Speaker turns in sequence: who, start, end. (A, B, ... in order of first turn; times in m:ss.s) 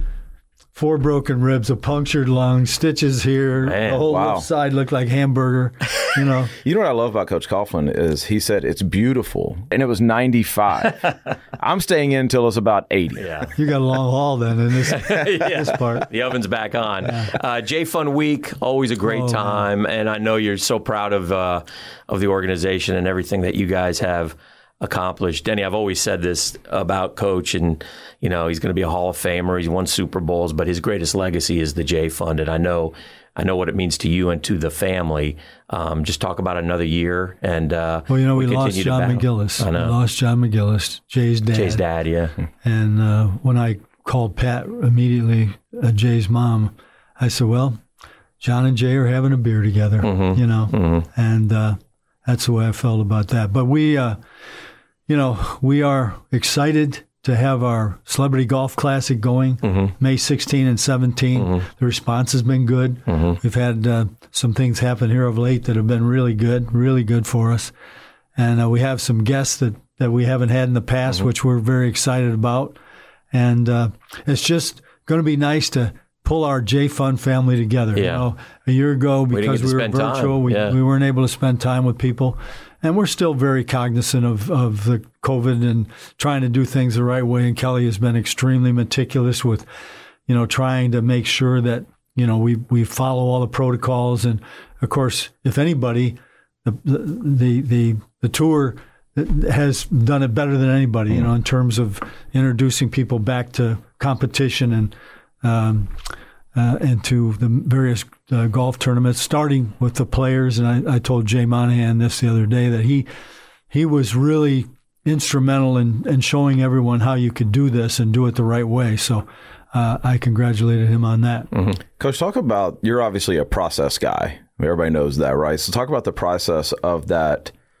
0:00.7-0:06.5 A
0:03.6-0:04.1 B
0:04.0-0:04.5 C
0:06.6-0:13.3 C
0:13.2-0:13.6 B
0:13.5-0:16.1 A
0:14.7-0:40.0 B
0:17.0-0:17.3 A
0:19.0-0:19.7 A
0:38.1-0:41.8 A
0:41.5-0:42.3 B
0:42.6-0:47.8 A
0:48.4-0:54.2 A
0:50.0-0:51.0 B
0:55.1-1:07.7 A
0:59.6-0:59.9 B
1:01.4-1:01.6 B
1:03.1-1:03.4 B
1:08.4-1:12.8 A
1:13.3-1:29.7 A
1:17.9-1:18.2 B
1:19.3-1:20.8 B
1:30.2-1:53.1 A
1:53.7-2:01.5 A
2:02.0-2:07.5 C